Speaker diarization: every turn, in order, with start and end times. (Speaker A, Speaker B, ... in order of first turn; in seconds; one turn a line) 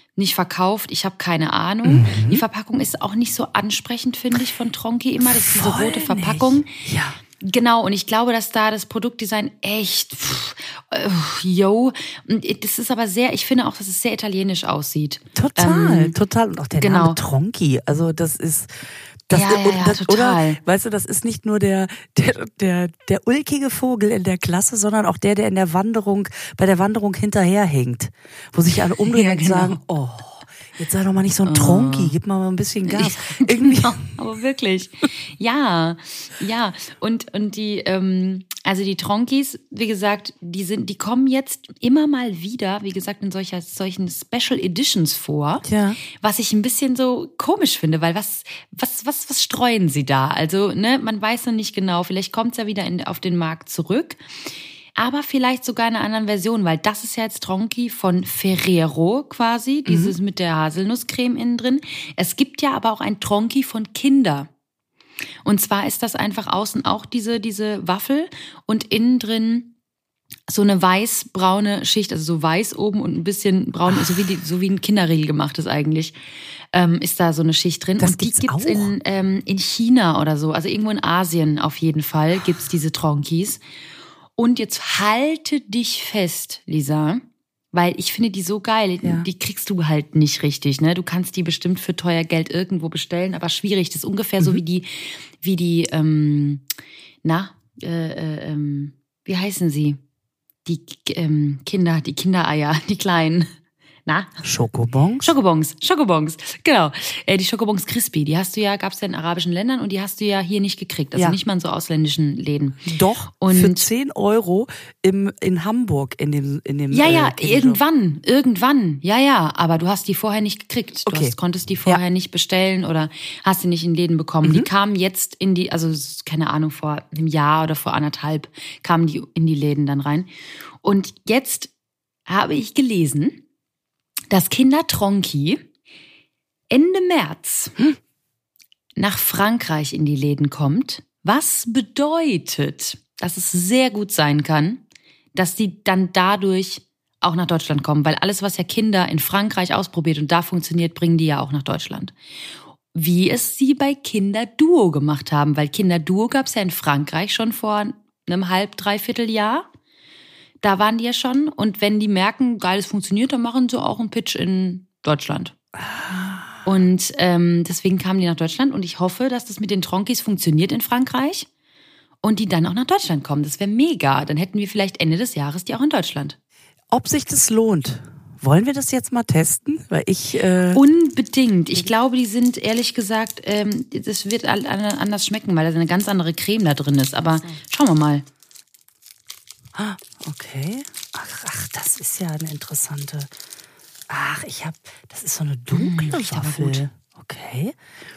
Speaker A: 0.2-6.8
Speaker B: 1.8-2.4
Speaker B: 5.2-7.2
Speaker A: 7.4-16.2
Speaker B: 15.3-34.1
Speaker A: 16.8-17.2
Speaker A: 19.3-20.6
Speaker A: 28.9-29.8
Speaker A: 31.4-32.1
Speaker A: 32.9-45.7
Speaker B: 45.6-46.0
Speaker A: 46.2-54.2
Speaker A: 55.0-64.5
Speaker B: 59.9-60.1
Speaker A: 65.5-69.7
Speaker A: 70.5-76.2
Speaker A: 76.7-83.6
Speaker B: 78.0-78.9
Speaker A: 84.4-96.6
Speaker B: 89.0-89.3
Speaker A: 97.2-100.0
Speaker A: 100.6-103.5
Speaker A: 104.0-104.4
Speaker B: 104.4-105.3
Speaker A: 105.2-112.8
Speaker B: 112.8-117.8
Speaker A: 113.4-113.9
Speaker A: 116.9-131.7
Speaker B: 121.0-122.0
Speaker B: 124.4-124.7
Speaker A: 132.3-133.4
Speaker A: 134.3-135.6
Speaker A: 136.7-137.8
Speaker A: 139.0-144.8
Speaker A: 145.3-152.1
Speaker A: 152.9-159.7
Speaker A: 160.6-165.6
Speaker B: 165.8-166.6
Speaker A: 166.6-171.5
Speaker A: 172.2-176.4
Speaker B: 176.9-180.8
Speaker A: 180.7-188.2
Speaker B: 189.7-193.3
Speaker B: 194.1-197.8
Speaker A: 195.7-196.8